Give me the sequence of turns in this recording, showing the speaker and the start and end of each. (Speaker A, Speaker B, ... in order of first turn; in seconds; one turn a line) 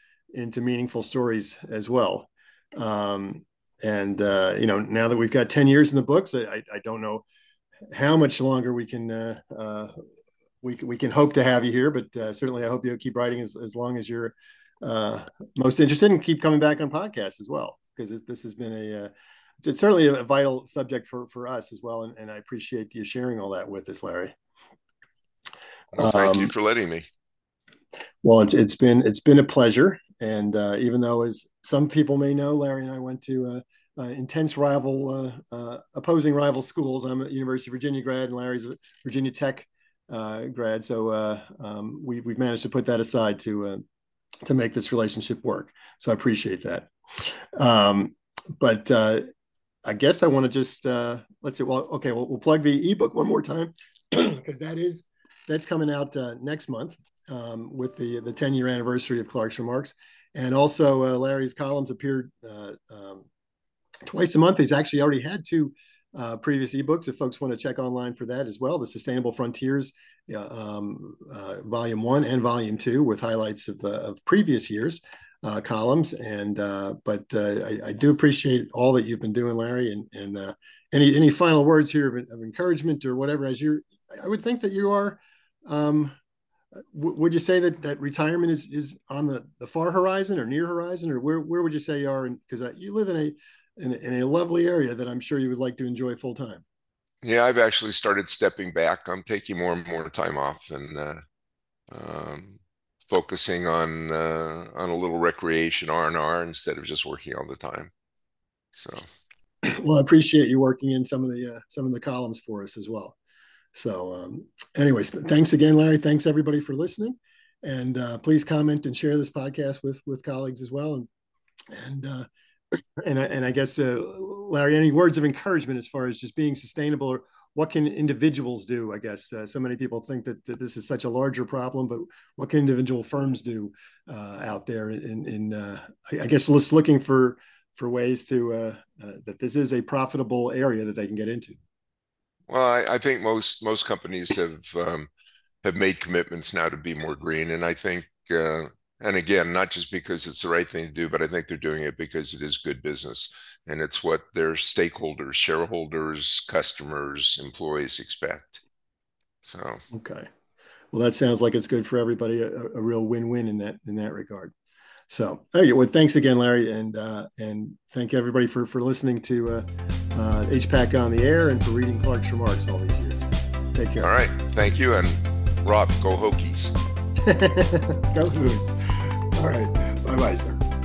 Speaker A: 0.3-7.2
Speaker A: 7.9-9.9
Speaker A: 10.6-19.1
Speaker A: 19.6-24.4
Speaker B: 25.9-27.1
Speaker A: 26.0-26.5
Speaker A: 28.2-43.8
Speaker A: 44.5-49.3
Speaker A: 49.9-63.3
Speaker A: 64.1-86.2
Speaker A: 86.9-96.6
Speaker B: 97.2-101.2
Speaker B: 101.9-107.9
Speaker B: 108.7-109.0
Speaker A: 109.6-113.2
Speaker A: 113.7-121.1
Speaker A: 121.7-122.3
Speaker A: 123.0-141.6
Speaker B: 142.5-145.1
Speaker B: 145.6-158.6
Speaker B: 159.4-159.8
Speaker A: 159.9-160.3
Speaker A: 160.9-164.5
Speaker A: 165.1-174.1
Speaker B: 174.0-176.8
Speaker A: 177.2-180.6